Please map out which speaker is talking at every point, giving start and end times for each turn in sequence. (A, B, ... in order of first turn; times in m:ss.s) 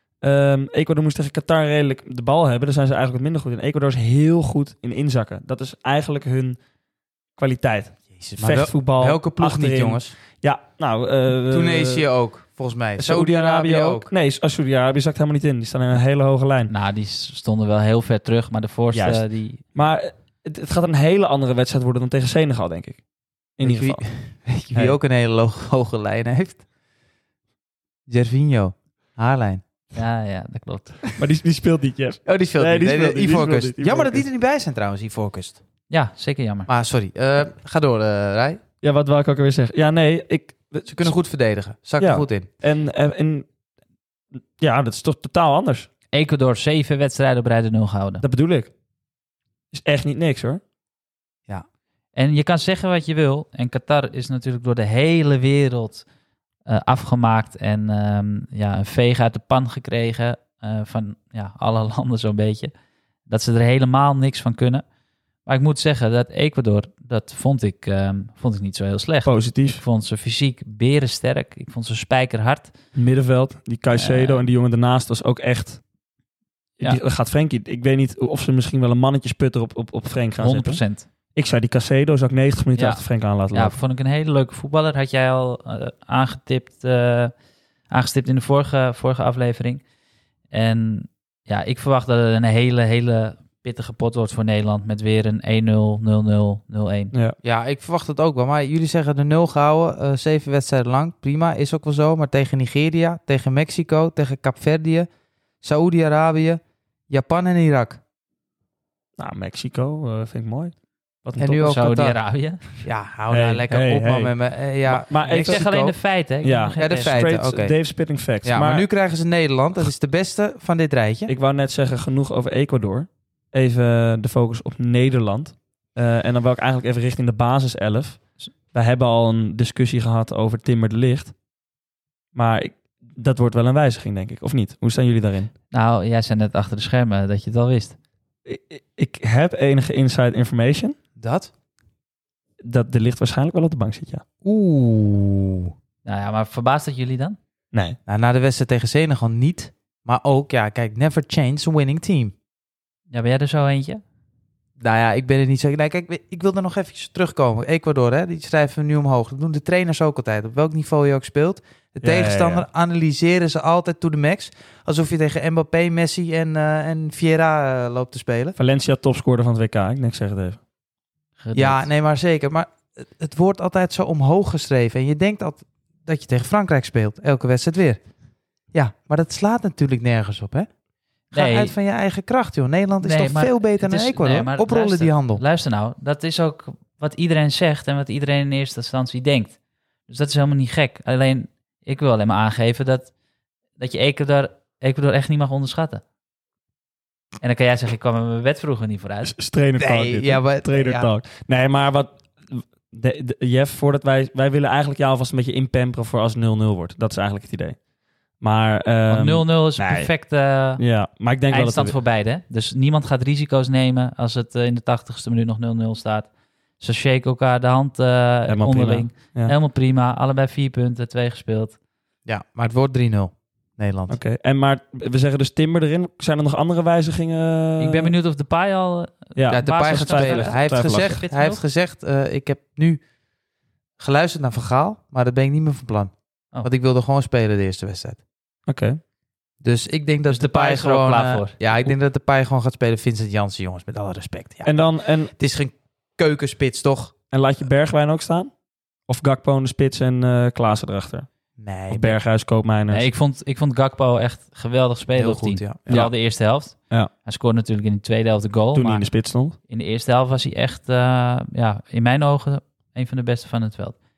0:00.2-0:06.6 A
0:07.4-0:12.1 A
0:08.1-0:10.1 B
0:11.5-0:14.1 B
0:13.0-0:16.7 A
0:16.7-0:19.6 C
0:18.9-0:23.0 A
0:23.6-0:24.0 A
0:23.6-0:26.6 B
0:28.1-0:29.6 B
0:29.9-0:31.0 C
0:31.2-0:34.2 A
0:32.2-0:35.6 B
0:35.9-0:36.7 C
0:36.7-0:38.6 B
0:38.8-0:41.1 A
0:40.9-0:42.5 B
0:42.0-0:43.5 A
0:44.6-0:45.9 A
0:46.1-0:48.2 C
0:48.2-0:48.7 A
0:49.7-0:50.6 A
0:52.2-0:56.0 C
0:56.7-1:02.7 C
1:03.3-1:04.8 C
1:05.4-1:12.7 C
1:09.2-1:09.8 A
1:12.9-1:15.8 A
1:13.9-1:14.4 C
1:16.8-1:20.8 A
1:20.4-1:21.1 C
1:21.3-1:23.8 A
1:22.7-1:27.3 C
1:27.9-1:29.8 C
1:30.5-1:37.1 C
1:37.4-1:45.1 B
1:45.6-1:48.0 B
1:49.2-1:51.6 A
1:51.4-1:52.2 B
1:51.6-1:52.8 C
1:52.8-1:55.9 B
1:53.3-1:54.3 A
1:54.8-1:55.9 A
1:55.3-1:57.2 C
1:56.4-1:58.9 A
1:56.8-1:57.8 B
1:58.4-2:01.3 B
2:01.3-2:11.4 A
2:12.3-2:15.5 A
2:15.7-2:18.0 C
2:18.4-2:21.0 A
2:21.2-2:21.5 B
2:22.6-2:24.2 A
2:24.4-2:25.7 B
2:26.0-2:27.4 C
2:28.1-2:32.3 B
2:33.1-2:34.0 C
2:34.8-2:48.6 B
2:42.0-2:42.7 A
2:48.6-2:50.6 A
2:51.4-2:51.9 C
2:51.5-2:58.0 B
2:58.7-3:00.7 B
3:01.3-3:01.7 C
3:01.3-3:05.4 B
3:03.0-3:09.6 C
3:10.1-3:13.1 C
3:13.8-3:16.0 C
3:17.4-3:19.3 C
3:19.2-3:27.8 A
3:19.8-3:21.1 B
3:28.4-3:30.1 A
3:29.1-3:30.8 C
3:30.8-3:32.0 A
3:31.5-3:41.8 C
3:38.5-3:39.5 A
3:42.2-3:44.2 B
3:44.1-3:48.1 A
3:47.8-3:51.6 C
3:49.4-3:51.2 A
3:49.5-3:53.0 B
3:54.0-3:58.2 B
3:58.7-3:59.0 A
3:59.6-4:07.1 B
4:00.3-4:01.7 C
4:04.6-4:05.3 A
4:07.3-4:08.5 A
4:09.1-4:11.3 A
4:11.6-4:12.2 B
4:11.9-4:13.1 A
4:12.9-4:19.1 C
4:15.1-4:16.0 B
4:15.9-4:16.2 A
4:18.7-4:19.6 A
4:19.7-4:24.0 C